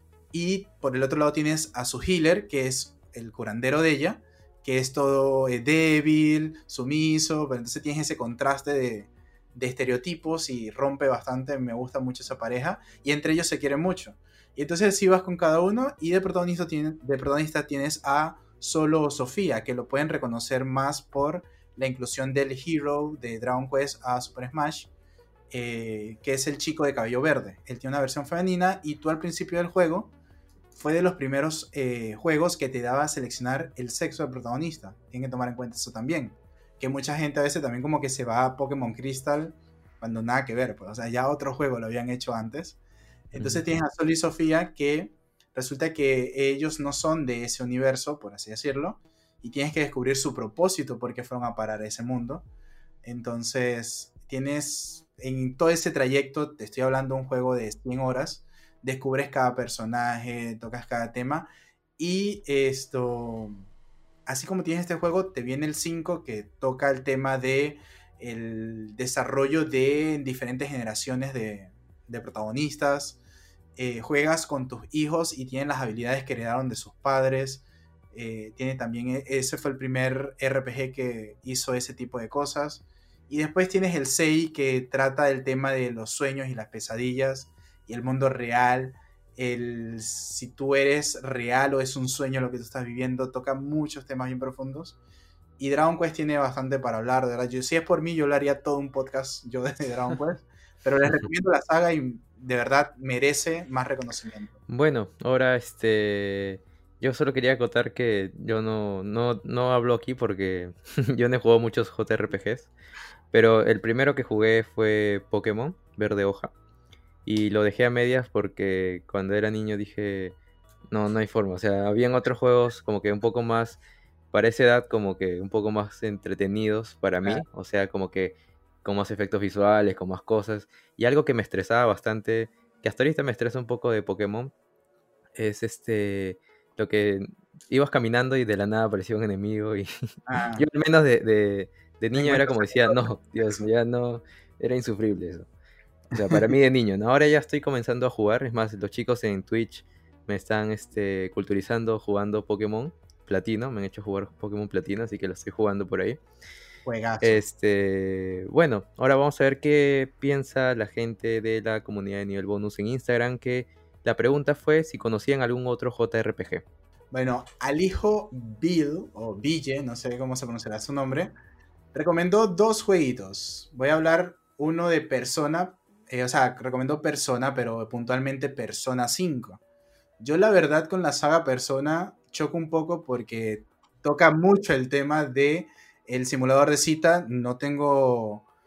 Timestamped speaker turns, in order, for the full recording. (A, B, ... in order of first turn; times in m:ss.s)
0:00.3-0:24.9 A
0:25.5-0:30.1 A
0:30.7-0:42.8 A
0:43.3-0:52.5 A
0:43.4-0:43.6 B
0:53.0-1:03.6 A
1:04.3-1:13.2 A
1:13.8-1:35.0 A
1:35.6-1:44.6 A
1:44.7-1:52.7 B
1:53.3-1:56.5 B
1:57.2-2:00.4 B
2:00.9-2:03.8 B
2:04.3-2:14.5 B
2:15.4-2:19.9 B
2:20.3-2:20.7 A
2:20.6-2:25.5 B
2:22.2-2:23.6 A
2:26.1-2:36.2 B
2:36.8-2:37.4 A
2:37.2-2:46.6 B
2:47.1-2:51.3 A
2:51.9-2:59.6 A
3:00.2-3:08.5 A